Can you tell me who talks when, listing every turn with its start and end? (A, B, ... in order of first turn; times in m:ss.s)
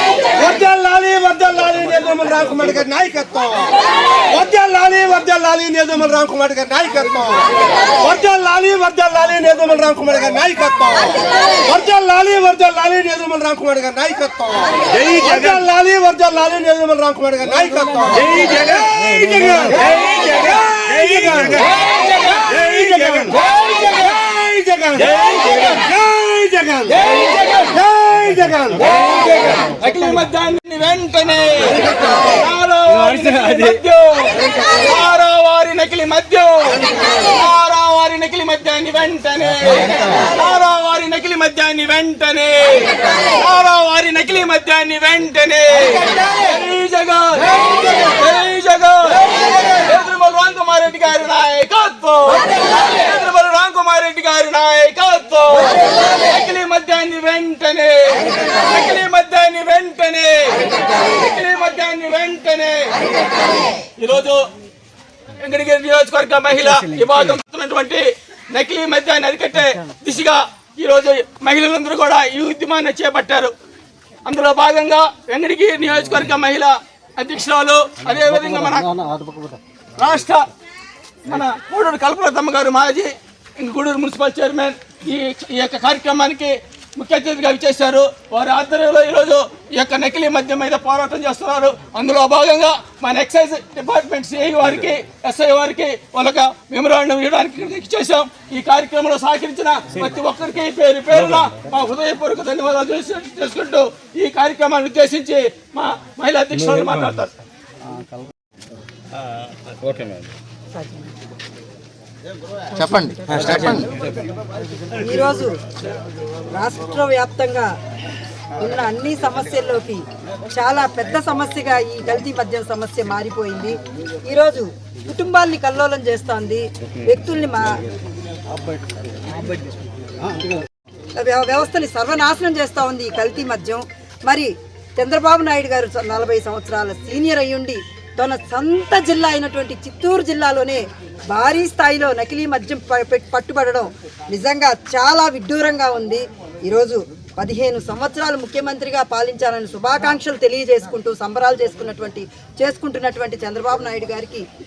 0:00.2-0:21.7 A
0:20.1-0:24.2 B
0:22.4-0:23.4 A
0:24.0-0:26.9 A
0:25.2-0:25.8 B
0:27.0-0:27.7 B
0:27.7-0:28.8 A
0:28.8-1:04.4 B
1:05.4-1:13.5 B
1:14.2-1:19.4 B
1:20.0-1:20.5 B
1:21.3-1:47.3 B
1:53.4-1:53.8 B
1:55.0-1:55.5 C
1:56.5-1:57.7 C
1:58.6-2:00.0 C
2:00.5-2:03.8 C
2:04.3-2:07.8 C
2:11.2-2:34.4 C